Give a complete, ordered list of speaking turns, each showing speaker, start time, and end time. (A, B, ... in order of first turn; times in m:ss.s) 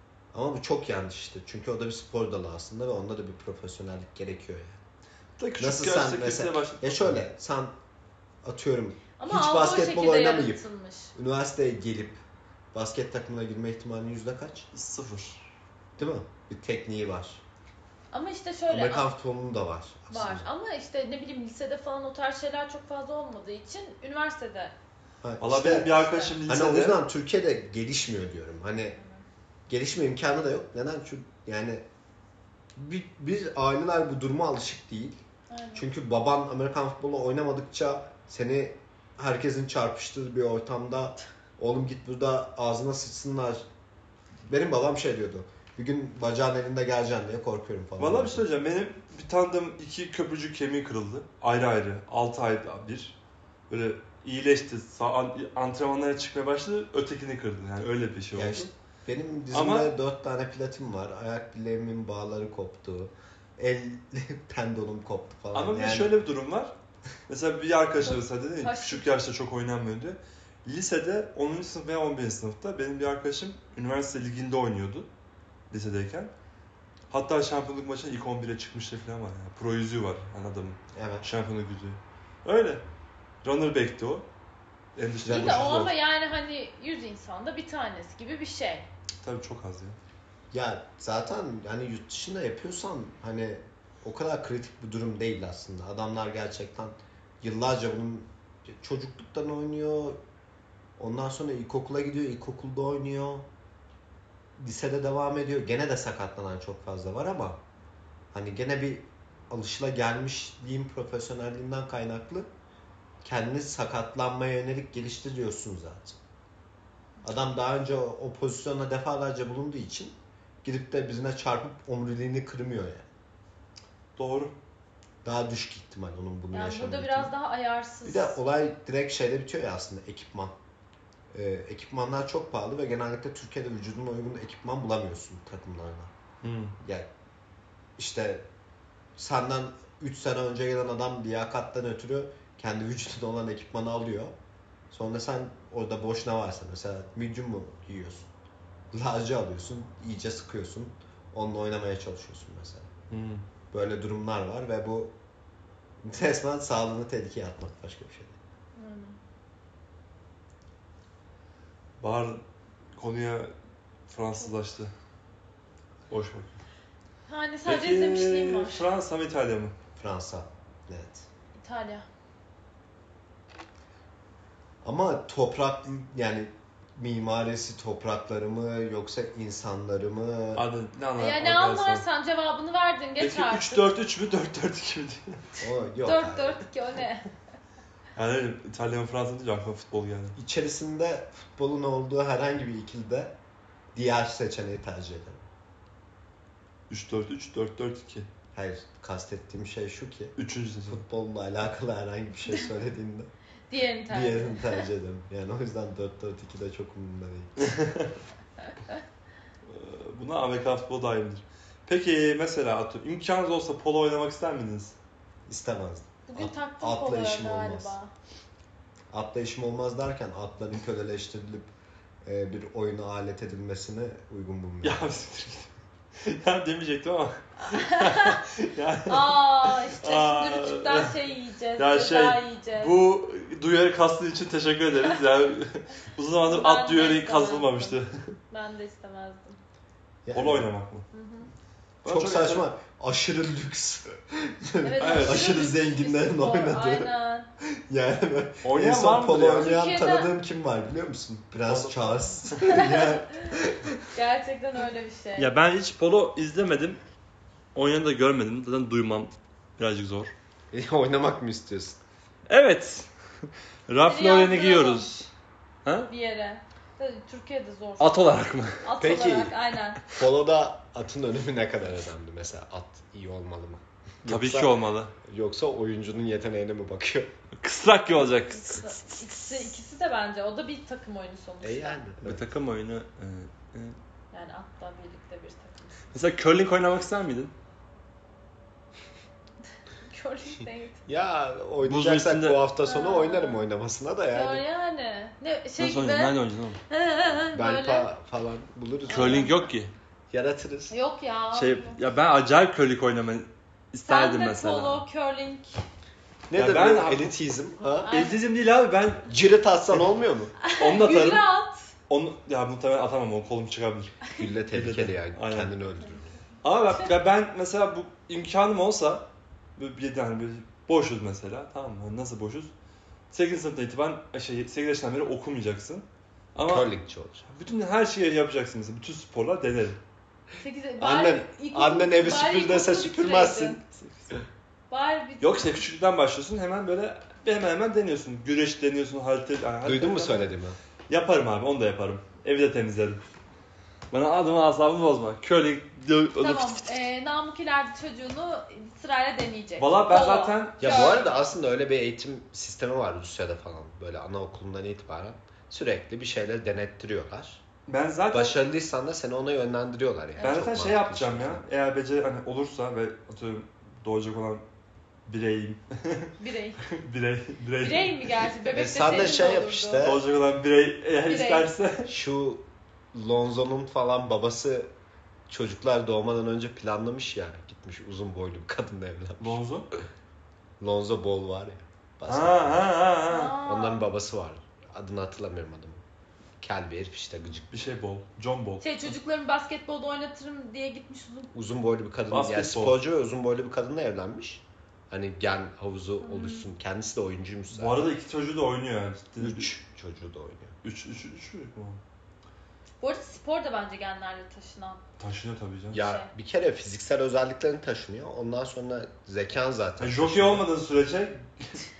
0:00.3-0:04.8 A
0:05.4-0:07.2 B
0:05.6-0:07.7 A
0:08.4-0:10.6 A
0:09.2-0:11.1 C
0:11.1-0:12.2 A
0:12.7-0:14.7 A
0:14.7-0:15.4 B
0:16.0-0:17.4 A
0:18.1-0:19.1 C
0:18.7-0:20.5 A
0:20.1-0:24.7 C
0:25.2-0:29.0 A
0:25.4-0:27.0 B
0:25.8-0:26.4 C
0:29.0-0:29.2 C
0:29.7-0:31.8 A
0:32.8-0:35.2 A
0:35.5-0:35.8 C
0:35.7-0:43.6 A
0:44.5-0:48.4 A
0:48.0-0:53.2 B
0:53.7-0:58.7 B
0:58.3-1:06.1 A
0:59.5-0:59.9 B
1:05.5-1:06.7 B
1:07.3-1:15.1 B
1:08.6-1:09.1 C
1:15.7-1:16.3 B
1:17.1-1:22.8 B
1:20.9-1:21.3 A
1:23.4-1:24.2 B
1:25.0-1:25.9 B
1:25.2-1:25.8 A
1:25.2-1:28.9 C
1:29.2-1:30.0 B
1:30.5-1:40.2 A
1:41.0-1:43.5 A
1:44.6-1:47.6 A
1:48.3-1:52.5 A
1:53.2-1:56.2 A
1:57.2-2:03.0 A
2:04.2-2:04.5 B
2:05.2-2:07.3 A
2:06.5-2:08.4 C
2:08.0-2:10.6 A
2:11.3-2:16.1 A
2:16.4-2:16.7 B
2:16.8-2:17.1 A
2:18.0-2:18.4 A
2:19.2-2:24.3 A
2:24.9-2:28.3 A
2:28.9-2:32.9 A
2:33.1-2:33.4 B
2:33.7-2:35.1 A
2:36.0-2:38.4 A
2:38.8-2:39.2 C
2:42.0-2:42.4 B
2:43.0-2:43.5 B
2:44.1-2:44.9 B
2:46.1-2:46.6 B
2:47.2-2:48.9 C
2:47.6-2:49.7 B
2:50.0-2:51.2 A
2:51.5-2:52.1 C
2:54.8-3:00.6 A
3:00.5-3:02.0 B
3:01.2-3:03.9 C
3:03.2-3:05.4 B
3:05.6-3:06.6 A
3:06.0-3:07.3 C
3:08.1-3:10.4 B
3:10.4-3:13.4 A
3:13.9-3:15.4 A
3:16.9-3:18.3 B
3:18.5-3:23.3 A
3:20.4-3:21.0 B
3:23.7-3:24.8 C
3:24.1-3:27.7 A
3:27.6-3:28.1 B
3:29.7-3:34.9 B
3:35.5-3:37.9 A
3:36.3-3:38.1 C
3:39.1-3:41.7 A
3:42.2-3:45.1 A
3:44.8-3:51.2 B
3:47.6-3:48.4 C
3:49.1-3:53.0 C
3:51.8-3:58.3 B
3:56.4-3:58.0 C
3:58.5-3:59.6 C
4:00.2-4:00.7 A
4:00.3-4:01.1 B
4:01.1-4:01.5 C
4:02.0-4:02.6 B
4:02.0-4:07.1 A
4:04.8-4:07.5 C
4:05.0-4:05.7 B
4:07.6-4:14.0 A
4:08.6-4:09.8 B
4:09.5-4:10.3 C
4:11.6-4:12.9 B
4:12.7-4:13.6 C
4:14.1-4:15.5 C
4:15.4-4:17.0 B
4:17.7-4:20.3 B
4:20.7-4:22.0 A
4:22.5-4:23.1 B
4:23.9-4:25.2 B
4:24.0-4:25.3 C
4:25.8-4:26.1 B
4:26.1-4:28.2 C
4:28.0-4:28.8 B
4:28.8-4:30.0 C
4:29.0-4:29.5 A
4:30.1-4:37.3 A
4:34.2-4:35.1 B
4:37.6-4:39.0 B
4:38.4-4:42.0 C
4:41.6-4:42.4 A
4:42.2-4:44.0 B
4:44.3-4:46.0 C
4:46.1-4:47.5 B
4:50.1-4:51.0 C
4:51.1-4:54.6 A
4:51.8-4:52.6 B
4:52.8-4:53.6 C
4:54.3-4:56.4 C
4:55.8-4:56.8 B
4:56.9-4:58.1 C
4:57.5-4:59.5 A
4:59.1-4:59.6 C
4:59.1-4:59.9 B
5:00.3-5:00.9 A
5:00.9-5:02.0 C
5:01.5-5:05.0 B
5:04.0-5:05.7 C
5:06.5-5:08.2 A
5:06.5-5:07.3 B
5:08.0-5:08.4 C
5:08.1-5:09.3 B
5:09.2-5:10.5 A
5:10.6-5:11.9 C
5:10.7-5:11.4 B
5:12.1-5:15.7 B
5:14.4-5:16.3 A
5:16.6-5:19.2 B
5:19.8-5:22.7 B
5:23.3-5:26.9 B
5:26.6-5:27.5 A
5:27.5-5:30.0 B
5:30.6-5:33.8 C
5:31.0-5:33.8 A
5:33.9-5:34.4 B
5:34.9-5:35.8 C
5:35.4-5:40.5 B
5:39.8-5:40.8 A
5:41.1-5:43.2 B
5:44.1-5:46.9 B
5:46.4-5:51.3 C
5:49.8-5:51.2 B
5:50.8-5:57.6 A
5:57.9-5:58.6 B
5:58.3-6:01.6 A
6:00.4-6:00.7 C
6:00.4-6:04.6 B
6:05.2-6:08.3 B
6:06.4-6:06.8 C
6:07.8-6:10.2 C
6:08.7-6:10.2 A
6:10.0-6:12.1 B
6:11.3-6:11.7 C
6:12.0-6:14.9 A
6:15.5-6:19.6 A
6:19.4-6:19.8 B
6:20.8-6:22.9 A
6:22.3-6:23.6 B
6:23.3-6:24.1 C
6:23.6-6:26.0 A
6:26.6-6:27.7 A
6:27.7-6:29.1 B
6:28.8-6:31.5 C
6:31.5-6:38.1 A
6:32.3-6:33.0 B
6:36.2-6:36.7 C
6:37.7-6:39.7 B
6:39.4-6:40.7 A
6:40.8-6:42.0 B
6:43.0-6:45.0 C
6:45.2-6:46.0 B
6:45.9-6:50.7 A
6:46.0-6:46.3 C
6:50.0-6:51.8 B